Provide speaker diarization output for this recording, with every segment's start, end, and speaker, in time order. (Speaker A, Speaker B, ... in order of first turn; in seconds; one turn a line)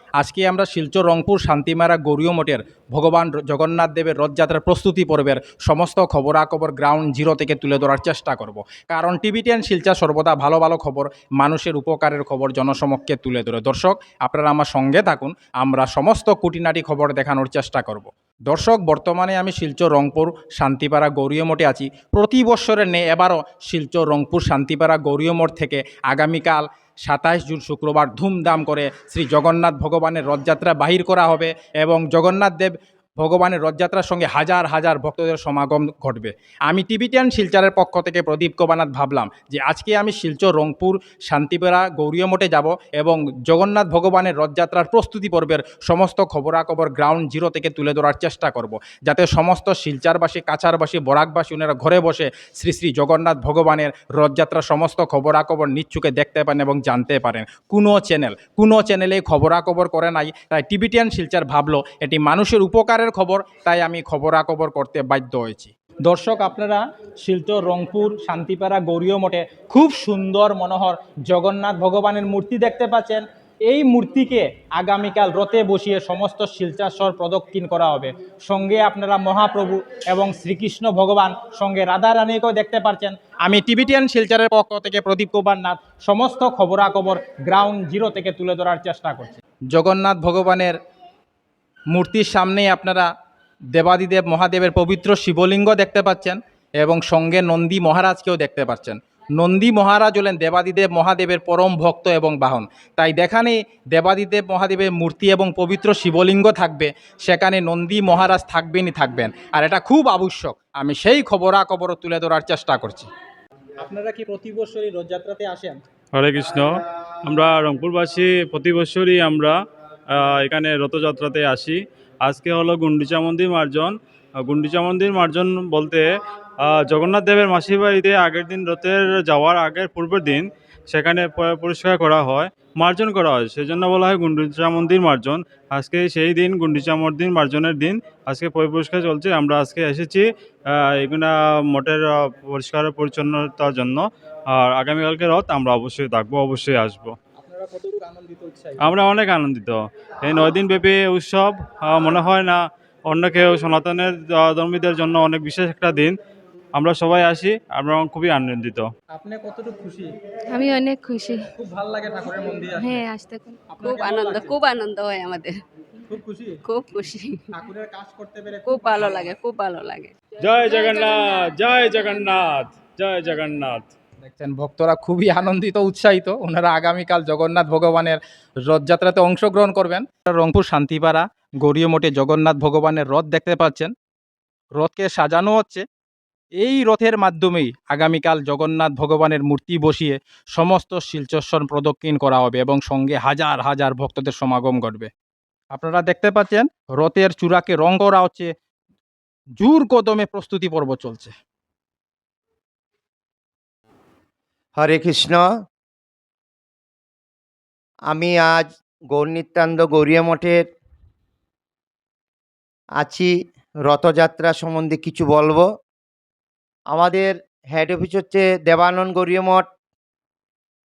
Speaker A: 0.2-90.8
Speaker A: 91.9-93.1
Speaker A: 93.7-113.1
Speaker A: 113.8-115.8
Speaker B: 116.1-119.5
Speaker B: 120.1-126.0
Speaker B: 126.6-147.1
Speaker A: 147.4-149.0
Speaker B: 148.8-152.6
Speaker B: 153.1-156.1
Speaker B: 156.8-158.9
Speaker A: 159.1-160.1
Speaker C: 160.5-161.5
Speaker A: 161.5-163.0
Speaker C: 162.8-163.8
Speaker A: 163.7-164.6
Speaker D: 163.8-165.5
Speaker A: 166.1-166.6
Speaker D: 166.7-167.4
Speaker A: 167.5-169.3
Speaker D: 168.7-170.1
Speaker B: 170.4-173.9
Speaker C: 170.7-171.5
Speaker A: 174.2-183.9
Speaker A: 184.8-185.8
Speaker A: 186.6-195.1
Speaker A: 195.7-198.5
Speaker A: 199.6-201.3
Speaker E: 204.8-205.5
Speaker E: 208.1-210.6
Speaker E: 213.0-213.3
Speaker E: 213.8-215.6
Speaker E: 216.9-219.6